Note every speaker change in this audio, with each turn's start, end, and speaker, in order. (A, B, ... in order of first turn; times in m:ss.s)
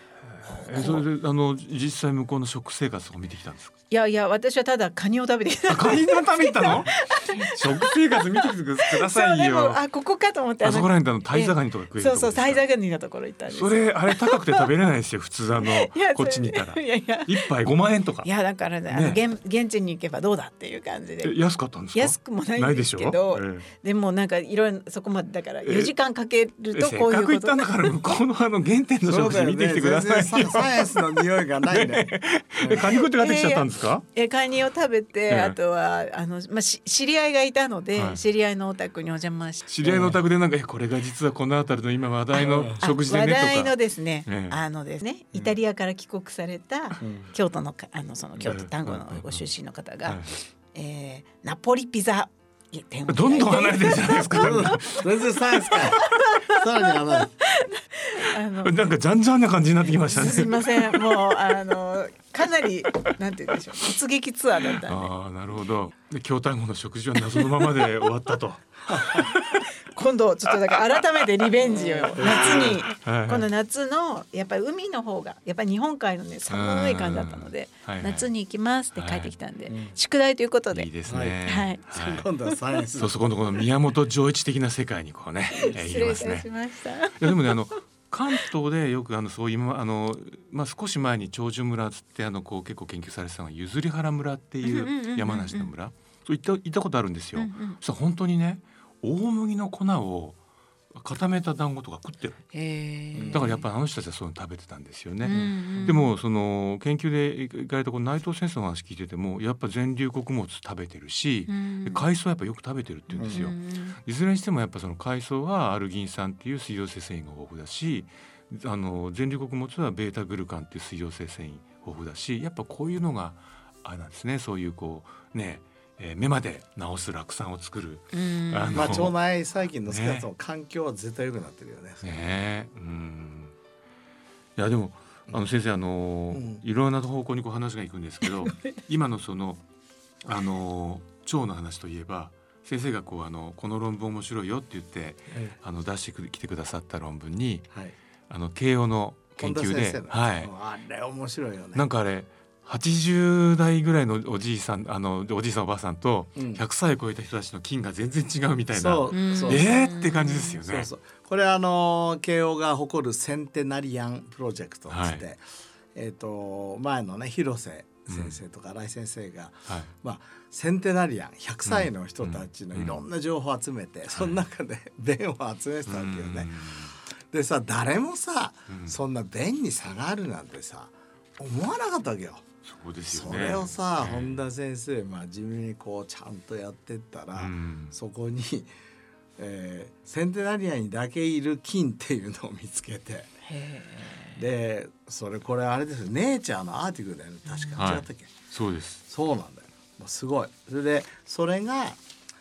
0:00.4-0:03.8 A
0:00.5-0:01.0 B
0:03.9-0:14.7 B
0:05.7-0:09.8 A
0:10.6-0:12.6 A
0:13.5-0:18.3 A
0:15.6-0:17.5 B
0:18.2-0:21.4 B
0:18.9-0:19.2 A
0:21.2-0:23.7 A
0:21.9-0:27.9 B
0:25.6-0:26.0 A
0:26.7-0:34.0 A
0:29.0-0:32.8 C
0:32.8-0:39.7 B
0:35.3-0:35.6 A
0:38.0-0:38.2 A
0:39.7-0:43.7 A
0:39.8-0:40.2 C
0:42.3-0:55.0 B
0:44.2-0:44.6 A
0:47.0-0:47.3 C
0:48.4-0:49.5 A
0:50.0-0:50.4 A
0:53.1-0:55.4 A
0:54.4-0:57.3 C
0:55.7-0:58.9 B
0:58.6-1:01.4 A
0:59.9-1:05.1 B
1:04.8-1:09.6 A
1:09.0-1:20.9 B
1:11.8-1:12.8 C
1:12.2-1:13.5 A
1:16.5-1:18.3 A
1:18.9-1:19.3 A
1:19.7-1:20.0 C
1:20.7-1:22.3 A
1:21.1-1:23.2 C
1:21.5-1:22.6 B
1:23.0-1:26.5 A
1:25.5-1:27.5 B
1:27.2-1:40.4 A
1:34.6-1:35.7 B
1:37.4-1:37.8 B
1:40.9-1:42.4 A
1:42.5-1:43.7 B
1:43.2-1:43.6 C
1:43.3-2:09.1 A
1:45.2-1:46.1 B
1:45.3-1:46.0 C
1:51.5-1:52.0 B
1:53.1-1:54.0 B
1:53.2-1:53.4 C
2:08.1-2:09.1 B
2:08.8-2:12.2 C
2:09.9-2:10.3 A
2:12.0-2:13.5 A
2:14.6-2:19.6 A
2:16.3-2:16.6 C
2:20.2-2:27.7 A
2:25.3-2:25.6 C
2:28.3-2:30.5 A
2:29.4-2:31.8 C
2:31.7-2:40.9 A
2:36.4-2:36.6 C
2:38.7-2:39.7 C
2:39.1-2:40.6 B
2:40.6-3:02.4 C
2:44.9-2:45.2 A
2:48.1-2:48.4 A
2:51.7-2:53.0 A
2:54.1-2:54.4 A
2:55.9-2:57.0 A
2:58.7-2:59.0 A
3:02.6-3:04.4 A
3:03.1-3:08.7 C
3:07.4-3:07.9 A
3:09.4-3:13.3 C
3:13.5-3:14.4 B
3:14.4-3:18.4 C
3:17.5-3:17.8 B
3:17.8-3:19.0 A
3:19.1-3:22.0 C